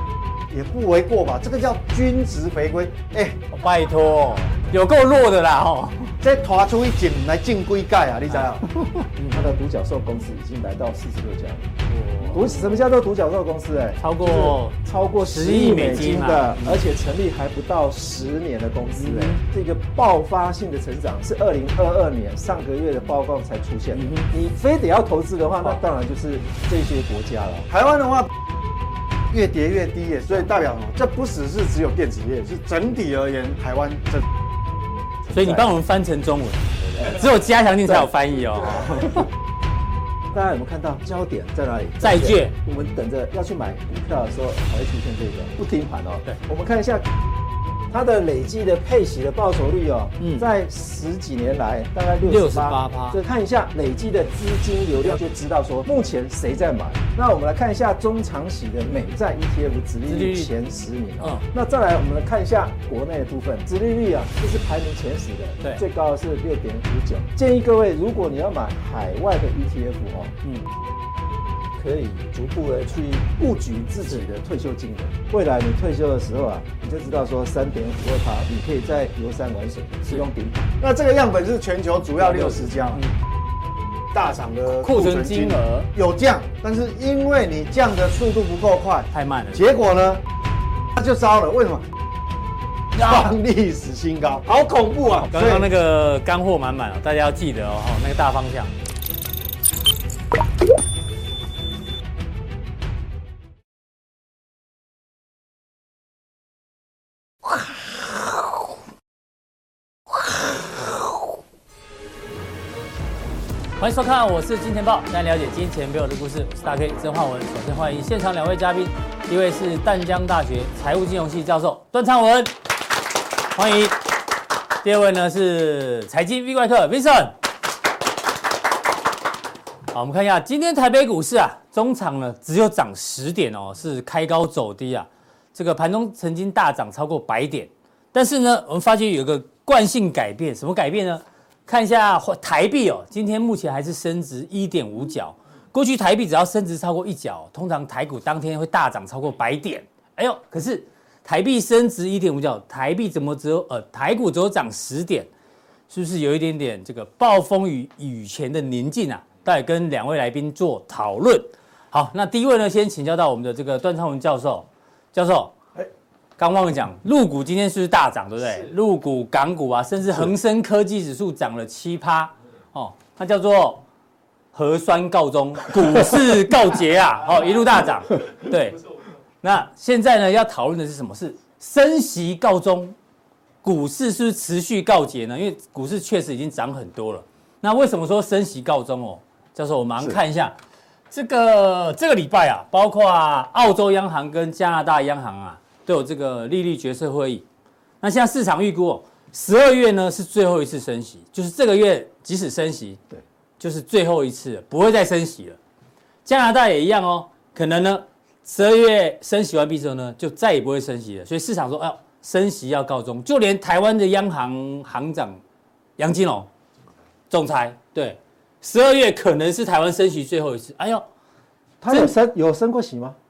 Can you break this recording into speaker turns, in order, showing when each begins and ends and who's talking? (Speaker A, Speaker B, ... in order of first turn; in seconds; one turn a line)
Speaker A: 0.5-3.4
Speaker B: 3.5-6.2
Speaker A: 6.2-8.7
Speaker B: 9.1-9.5
Speaker C: 9.3-11.7
Speaker B: 12.0-12.6
Speaker C: 12.3-27.7
Speaker B: 14.0-16.8
Speaker B: 19.0-19.4
Speaker B: 23.9-24.3
Speaker A: 27.7-28.3
Speaker A: 29.3-34.2
Speaker C: 35.3-35.7
Speaker B: 35.3-39.2
Speaker C: 37.9-39.2
Speaker C: 40.3-47.1
Speaker B: 42.0-42.5
Speaker C: 47.9-70.4
Speaker B: 50.2-50.5
Speaker B: 52.3-53.2
Speaker B: 60.1-60.5
Speaker C: 71.8-80.7
Speaker A: 80.8-83.0
Speaker B: 82.2-83.1
Speaker A: 84.1-90.2
Speaker B: 84.8-85.9
Speaker B: 89.1-89.6
Speaker A: 91.0-91.9
Speaker B: 93.0-93.3
Speaker A: 93.0-95.7
Speaker B: 95.3-98.7
Speaker B: 113.8-122.6
Speaker B: 123.4-124.0
Speaker B: 124.8-127.3
Speaker B: 129.9-155.3
Speaker B: 155.9-165.6
Speaker B: 166.4-173.8
Speaker B: 174.5-178.8
Speaker B: 179.4-182.9
Speaker B: 183.6-190.6
Speaker B: 191.1-197.4
Speaker B: 198.0-203.0
Speaker B: 203.6-205.6
Speaker B: 206.2-215.4
Speaker B: 216.0-216.5
Speaker B: 217.3-221.1
Speaker C: 221.8-223.2